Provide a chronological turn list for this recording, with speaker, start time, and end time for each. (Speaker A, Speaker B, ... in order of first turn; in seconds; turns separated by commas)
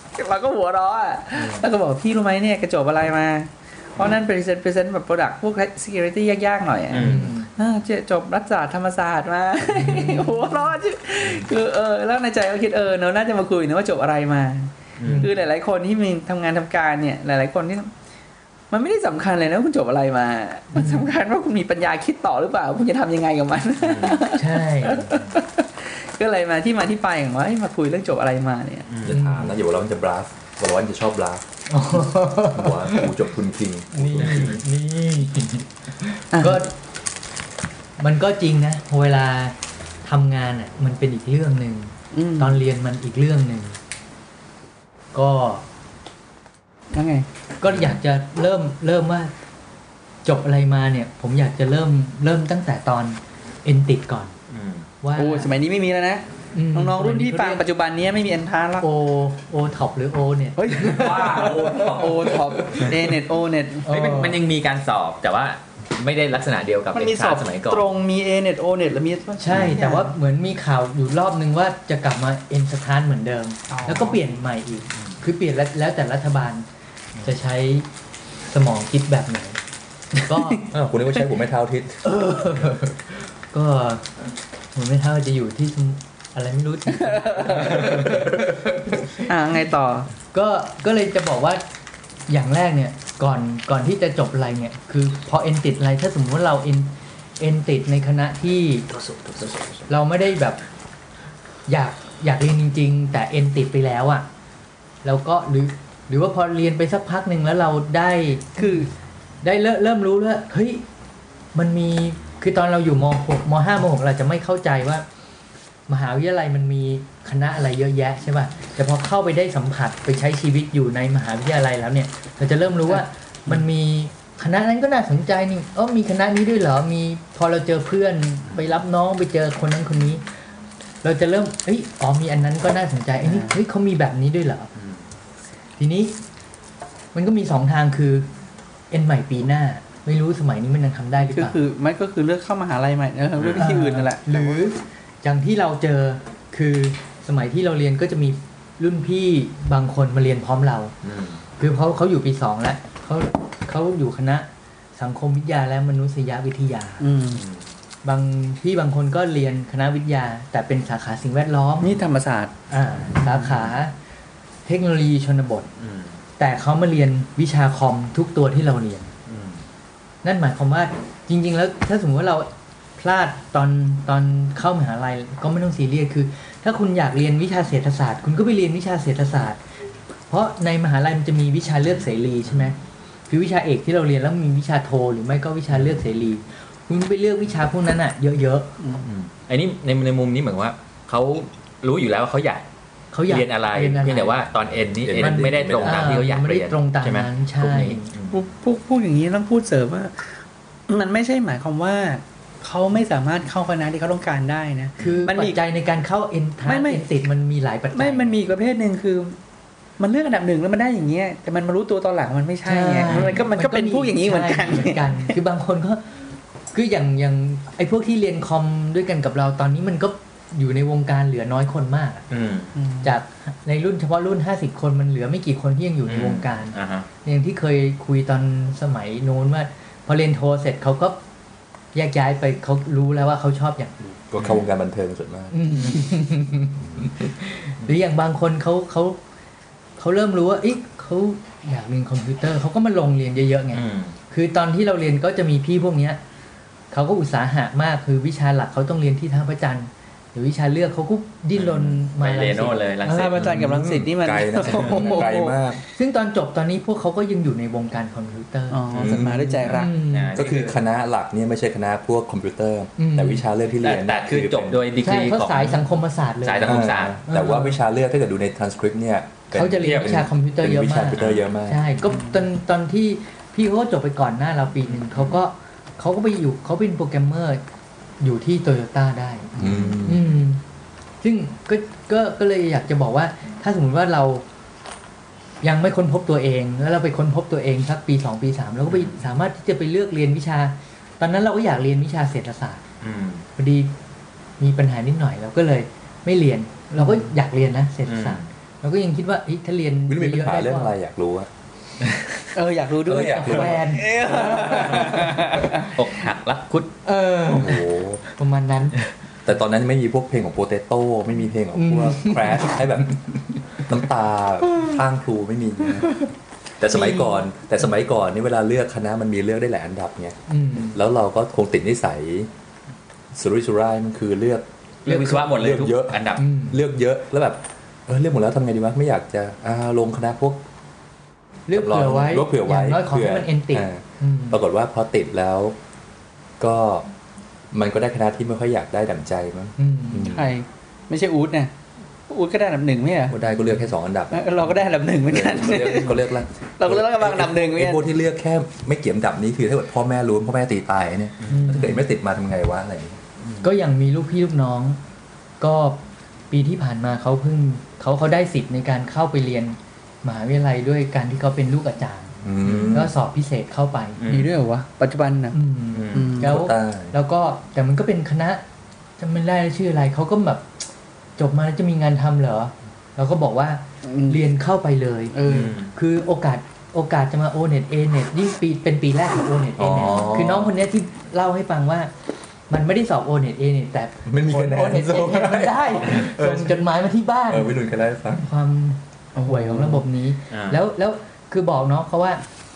Speaker A: 0.1-17.9, Speaker B: 6.9-7.3, Speaker C: 7.0-7.5, Speaker C: 9.7-10.7, Speaker B: 15.0-15.3, Speaker C: 15.0-15.3, Speaker A: 18.7-28.9, Speaker C: 20.7-21.1, Speaker B: 23.8-24.2, Speaker C: 24.3-25.3, Speaker B: 28.9-29.2, Speaker D: 29.0-31.4, Speaker C: 29.1-29.6, Speaker C: 31.7-33.1, Speaker D: 32.0-34.6, Speaker C: 33.9-36.7, Speaker B: 34.2-34.6, Speaker A: 36.3-36.6, Speaker C: 38.0-43.8, Speaker A: 42.1-42.6, Speaker C: 45.1-45.6, Speaker A: 46.9-47.3, Speaker C: 47.6-49.3, Speaker B: 47.7-48.0, Speaker C: 50.2-54.4, Speaker B: 54.5-54.9, Speaker C: 55.0-55.5, Speaker A: 55.1-58.9, Speaker C: 56.5-57.6, Speaker C: 58.8-61.7, Speaker A: 60.5-63.9, Speaker B: 60.7-62.9, Speaker C: 63.9-64.4, Speaker B: 63.9-67.8, Speaker A: 66.9-70.1, Speaker C: 69.4-76.7, Speaker A: 73.7-74.2, Speaker C: 77.2-77.9, Speaker C: 78.5-79.6, Speaker C: 80.1-80.7, Speaker A: 80.3-80.6, Speaker D: 80.7-82.1, Speaker C: 82.0-89.3, Speaker A: 86.9-88.2, Speaker A: 89.2-90.1, Speaker C: 90.3-91.6, Speaker C: 92.3-98.9, Speaker B: 99.0-99.7, Speaker C: 99.9-100.6, Speaker C: 101.7-104.3, Speaker C: 105.0-108.9, Speaker A: 108.6-108.9, Speaker C: 109.4-110.8, Speaker C: 111.5-115.0, Speaker C: 115.9-130.2, Speaker C: 131.0-134.7, Speaker A: 133.2-133.6, Speaker C: 135.8-136.2, Speaker C: 137.1-138.3, Speaker C: 138.9-141.6, Speaker A: 141.3-144.6, Speaker B: 143.4-143.7, Speaker C: 143.5-150.9, Speaker B: 151.0-151.4, Speaker C: 151.6-157.0, Speaker A: 157.0-157.4, Speaker B: 157.3-157.7, Speaker C: 158.0-162.0, Speaker A: 161.8-162.5, Speaker C: 162.7-163.9, Speaker B: 163.3-163.7, Speaker C: 164.7-165.7, Speaker B: 165.8-166.2, Speaker C: 166.4-169.1, Speaker B: 169.3-169.6, Speaker C: 170.2-179.6, Speaker C: 180.3-182.8, Speaker C: 183.3-188.7, Speaker B: 189.0-192.6, Speaker C: 193.1-194.4, Speaker B: 193.3-198.4, Speaker D: 195.0-196.2, Speaker C: 195.2-198.1, Speaker A: 198.3-205.6, Speaker C: 205.0-208.4, Speaker A: 206.6-207.0, Speaker A: 207.9-209.4, Speaker A: 210.0-215.3, Speaker C: 212.6-216.2, Speaker C: 216.7-222.2, Speaker B: 222.3-222.7, Speaker A: 222.7-223.1, Speaker C: 223.0-231.2, Speaker B: 226.1-227.1, Speaker C: 231.9-234.1, Speaker D: 234.3-236.0, Speaker B: 234.4-234.7, Speaker C: 235.5-239.2, Speaker C: 240.0-246.2, Speaker B: 243.7-244.1, Speaker C: 246.9-252.9, Speaker B: 251.5-253.6, Speaker A: 253.0-255.8, Speaker D: 253.3-255.8, Speaker B: 254.6-255.0, Speaker C: 255.9-260.4, Speaker A: 258.7-259.9, Speaker D: 258.9-264.8, Speaker B: 260.1-260.8, Speaker C: 263.0-263.4, Speaker B: 263.8-265.8, Speaker C: 265.0-267.8, Speaker B: 266.4-267.2, Speaker D: 266.6-271.9, Speaker C: 269.5-277.6, Speaker B: 269.8-270.1, Speaker B: 271.1-271.5, Speaker A: 272.1-272.4, Speaker B: 274.9-275.4, Speaker C: 278.2-280.6, Speaker D: 279.6-280.2, Speaker B: 279.6-280.1, Speaker C: 281.2-284.4, Speaker C: 285.6-292.8, Speaker B: 288.9-289.2, Speaker B: 293.0-293.4, Speaker C: 293.6-293.9, Speaker C: 294.6-300.9, Speaker A: 297.0-297.2, Speaker B: 298.1-298.5, Speaker D: 300.1-301.5, Speaker A: 302.5-305.9, Speaker D: 303.1-303.9, Speaker C: 303.1-304.8, Speaker B: 304.5-306.9, Speaker C: 307.0-309.0, Speaker D: 307.5-308.2, Speaker D: 309.4-316.2, Speaker C: 311.7-312.8, Speaker D: 316.8-320.4, Speaker C: 316.9-317.4, Speaker C: 320.5-321.0, Speaker D: 320.9-322.5, Speaker D: 323.3-330.6, Speaker B: 325.1-326.4, Speaker C: 326.4-326.8, Speaker C: 331.7-334.6, Speaker D: 331.7-335.8, Speaker D: 336.6-337.1, Speaker D: 337.7-340.5, Speaker C: 339.8-340.3, Speaker A: 340.2-341.7, Speaker A: 342.3-343.4, Speaker D: 343.3-353.2, Speaker A: 344.3-348.0, Speaker B: 351.4-351.8, Speaker C: 351.5-352.1, Speaker B: 353.4-353.7, Speaker C: 353.6-355.0, Speaker C: 355.6-364.2, Speaker D: 362.4-363.1, Speaker B: 362.6-363.0, Speaker B: 364.2-364.5, Speaker A: 364.3-365.6, Speaker C: 365.5-368.6, Speaker B: 365.9-366.4, Speaker A: 366.1-366.5, Speaker D: 366.4-367.1, Speaker C: 369.2-370.8, Speaker C: 371.4-382.1, Speaker A: 374.0-374.4, Speaker A: 375.3-375.7, Speaker B: 375.4-375.9, Speaker D: 379.8-380.7, Speaker C: 382.7-387.8, Speaker D: 384.2-386.8, Speaker D: 387.5-388.4, Speaker C: 388.3-392.4, Speaker A: 389.3-390.0, Speaker B: 390.5-390.8